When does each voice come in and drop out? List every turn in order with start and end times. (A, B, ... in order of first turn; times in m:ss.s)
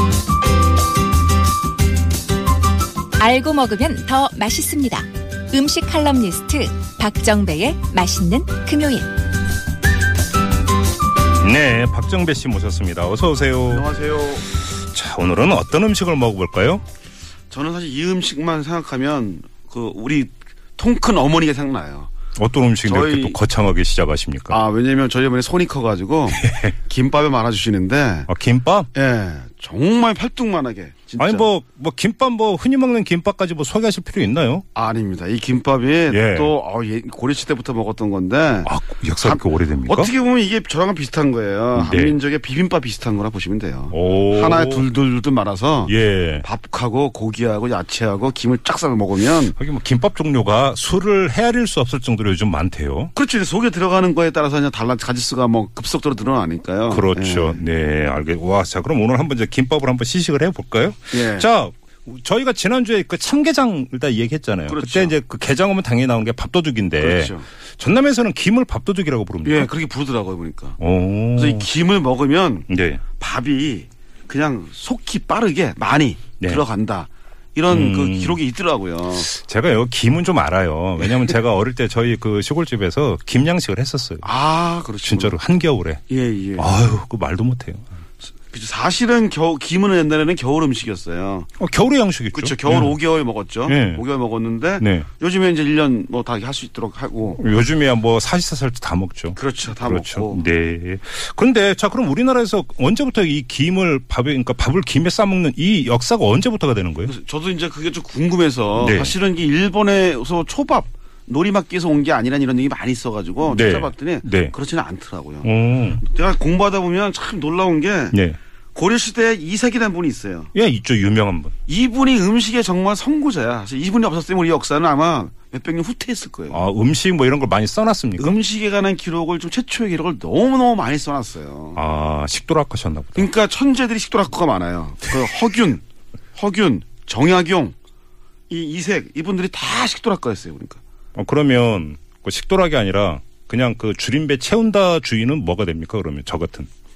0:03.2-0:09.1 A
0:11.4-0:13.9 B
0:13.7-0:14.4 C
0:14.5-0:16.8 B
0:17.5-0:22.1 C
0:22.4-0:24.6 B
0:22.8-0:23.4 C
0:24.5-0:28.3 C
0:26.3-0:26.7 B
0:28.3-0:28.9 B
0:28.9-0:31.5 C
0:31.2-0:34.6 B
0:34.8-0:49.6 C
0:36.1-0:36.6 B
0:38.6-0:40.1 B
0:41.8-0:42.2 B
0:43.9-0:44.9 B
0:45.9-0:46.4 B
0:49.6-0:53.1 B
0:53.2-0:57.6 C
0:56.9-1:09.7 B
1:01.1-1:01.5 C
1:04.7-1:05.2 C
1:07.0-1:07.5 C
1:09.4-1:10.8 C
1:10.8-1:11.7 B
1:11.3-1:19.3 C
1:12.7-1:13.0 B
1:17.7-1:18.4 B
1:19.1-1:24.2 B
1:24.2-1:25.4 C
1:25.0-1:26.0 B
1:26.1-1:26.7 C
1:26.6-1:27.8 B
1:28.5-1:31.5 C
1:31.6-1:33.0 B
1:32.3-1:37.4 C
1:33.7-1:34.0 B
1:34.8-1:35.1 B
1:37.4-1:47.1 B
1:39.4-1:40.4 C
1:47.1-1:58.2 C
1:48.8-1:49.2 B
1:53.5-1:54.5 B
1:55.4-1:56.0 B
1:58.1-1:58.4 B
1:58.8-2:00.5 C
2:00.5-2:01.5 B
2:01.7-2:06.6 C
2:06.5-2:08.4 B
2:08.2-2:11.8 C
2:11.8-2:13.3 B
2:13.2-2:15.8 C
2:16.4-2:17.8 C
2:18.5-2:20.8 C
2:21.2-2:26.7 B